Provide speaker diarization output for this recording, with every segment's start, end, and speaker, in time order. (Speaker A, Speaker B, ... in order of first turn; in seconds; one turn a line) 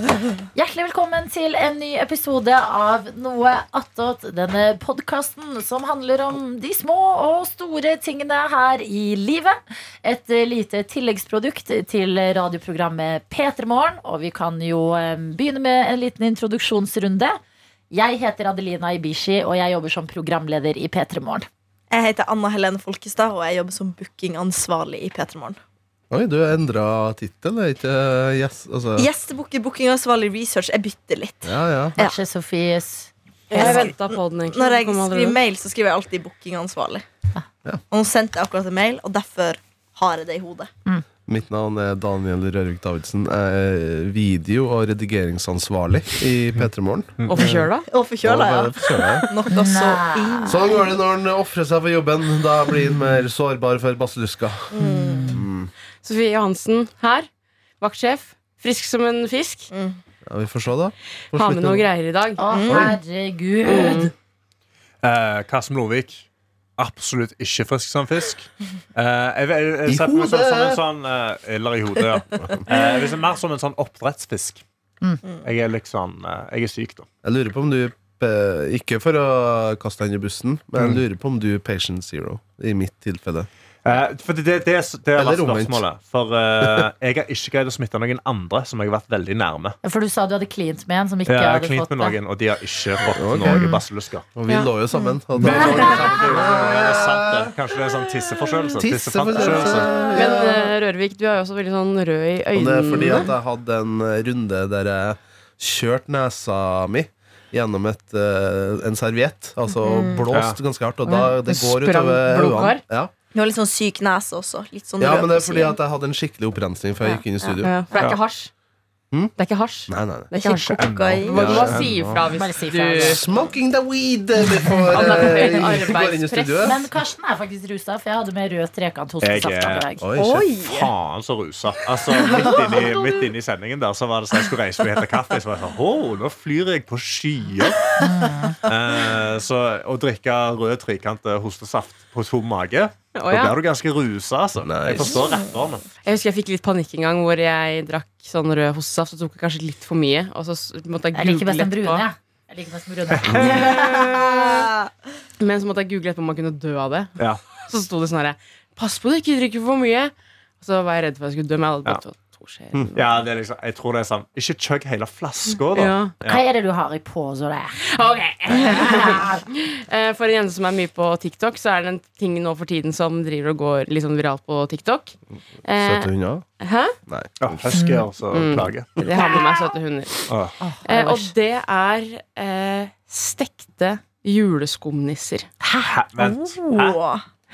Speaker A: 0.5-17.4
Speaker A: 17.9-21.5
Speaker B: 21.9-25.6
Speaker C: 26.1-29.1
Speaker B: 29.0-32.2
Speaker C: 31.4-32.0
Speaker A: 32.0-33.9
Speaker D: 33.5-35.4
Speaker B: 33.5-37.0
Speaker B: 37.9-40.7
Speaker C: 41.3-47.6
Speaker E: 47.2-47.6
Speaker D: 47.2-47.9
Speaker B: 47.9-50.9
Speaker C: 48.2-49.3
Speaker A: 49.5-50.8
Speaker C: 50.5-54.7
Speaker B: 54.7-55.4
Speaker A: 54.8-55.4
Speaker C: 55.3-55.7
Speaker D: 56.0-57.3
Speaker D: 57.8-59.7
Speaker B: 59.7-60.0
Speaker C: 60.2-61.9
Speaker D: 61.3-62.4
Speaker A: 62.4-64.1
Speaker B: 62.5-63.0
Speaker D: 63.6-64.1
Speaker E: 65.0-66.2
Speaker E: 66.8-74.6
Speaker C: 69.8-70.8
Speaker E: 75.4-77.1
Speaker C: 77.2-83.5
Speaker E: 83.8-89.8
Speaker C: 85.2-85.8
Speaker C: 86.6-86.9
Speaker A: 89.8-92.2
Speaker E: 91.2-94.3
Speaker C: 93.0-93.7
Speaker A: 93.5-93.8
Speaker C: 94.3-97.5
Speaker B: 94.9-95.2
Speaker E: 95.4-100.0
Speaker B: 95.8-96.0
Speaker C: 98.6-100.7
Speaker B: 99.7-100.1
Speaker D: 100.0-103.3
Speaker C: 102.5-113.1
Speaker B: 109.8-110.2
Speaker E: 110.3-110.6
Speaker D: 111.0-112.8
Speaker B: 113.3-115.8
Speaker C: 115.0-117.7
Speaker B: 117.4-118.2
Speaker D: 117.6-118.5
Speaker D: 119.4-123.2
Speaker C: 119.9-120.3
Speaker B: 120.3-121.7
Speaker E: 120.8-121.9
Speaker C: 121.3-122.2
Speaker A: 122.3-123.2
Speaker C: 123.0-126.8
Speaker D: 124.9-126.8
Speaker A: 126.6-130.0
Speaker E: 129.2-129.9
Speaker C: 130.0-130.5
Speaker B: 130.2-130.9
Speaker E: 130.6-137.9
Speaker B: 132.3-133.0
Speaker A: 138.0-138.5
Speaker E: 138.6-145.8
Speaker D: 143.1-143.6
Speaker C: 144.6-145.2
Speaker D: 146.0-152.0
Speaker A: 151.1-154.1
Speaker E: 153.1-153.8
Speaker D: 153.5-154.7
Speaker B: 153.7-154.9
Speaker D: 155.4-163.2
Speaker E: 162.9-166.4
Speaker D: 165.7-166.1
Speaker A: 166.2-167.8
Speaker D: 167.8-177.0
Speaker A: 168.5-169.5
Speaker C: 175.8-176.4
Speaker C: 177.1-177.8
Speaker E: 177.4-179.1
Speaker A: 177.7-178.1
Speaker D: 178.3-180.3
Speaker E: 180.3-180.5
Speaker A: 180.6-181.3
Speaker D: 180.8-185.5
Speaker A: 185.6-186.4
Speaker E: 185.8-187.0
Speaker B: 186.5-187.2